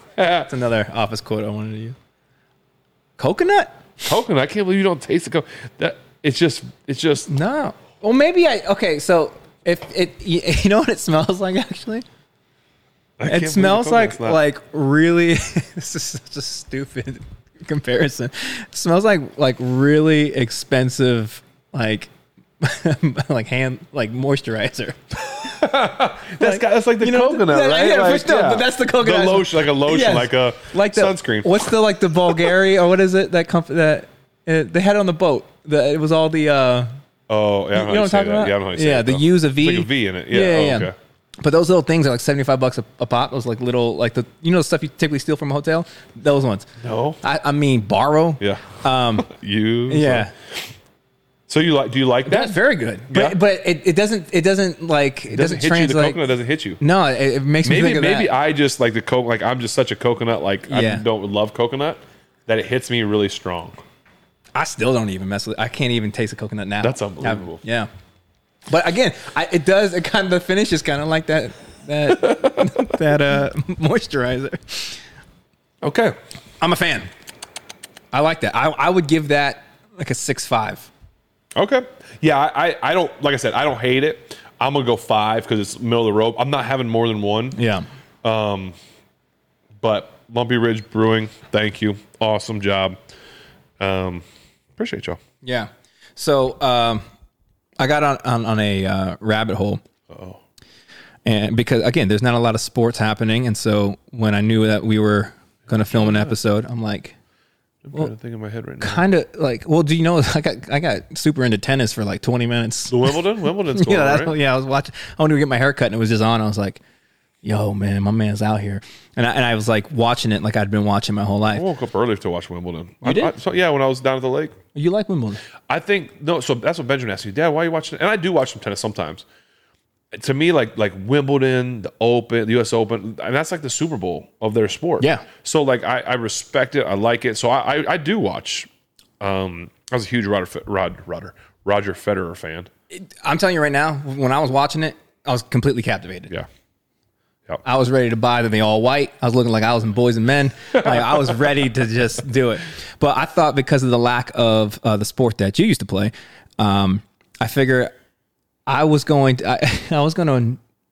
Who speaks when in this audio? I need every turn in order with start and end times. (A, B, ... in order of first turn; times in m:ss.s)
0:00.2-0:00.5 A
0:00.5-0:02.0 B
0:03.2-0:03.8 B
0:04.0-0:07.3 A
0:07.3-0:12.0 B
0:13.2-0:14.4 A
0:13.3-0:25.6 B
0:25.3-0:31.7 A
0:26.4-0:36.9 B
0:37.3-0:41.0 A
0:37.7-0:46.7 B
0:46.8-0:47.2 A
0:47.2-0:49.3 B
0:48.4-0:50.6 A
0:49.9-0:50.3 B
0:51.5-0:53.4 A
0:52.3-0:56.2 B
0:55.3-0:56.8 A
0:56.8-0:58.3 B
0:57.6-1:03.8 A
1:00.7-1:01.0 B
1:04.6-1:07.9 B
1:06.8-1:07.6 A
1:08.7-1:15.0 B
1:12.1-1:12.9 A
1:15.8-1:16.2 A
1:16.6-1:17.1 B
1:18.1-1:20.9 B
1:21.6-1:27.6 A
1:27.6-1:27.9 B
1:28.2-1:28.8 A
1:29.8-1:33.0 A
1:33.8-1:34.2 A
1:34.8-1:35.2 A
1:35.4-1:37.0 B
1:37.8-1:39.8 B
1:40.1-1:40.4 A
1:41.2-1:47.2 B
1:45.8-1:46.4 A
1:47.8-1:49.1 A
1:48.8-1:53.2 B
1:52.9-1:54.4 A
1:53.7-1:56.8 B
1:57.4-2:01.7 B
2:01.5-2:04.6 A
2:03.0-2:03.3 B
2:04.8-2:05.4 B
2:05.7-2:09.2 A
2:10.1-2:18.7 A
2:15.0-2:15.3 B
2:19.2-2:22.7 A
2:22.9-2:26.3 B
2:27.6-2:37.9 B
2:30.8-2:31.3 A
2:38.7-2:40.6 B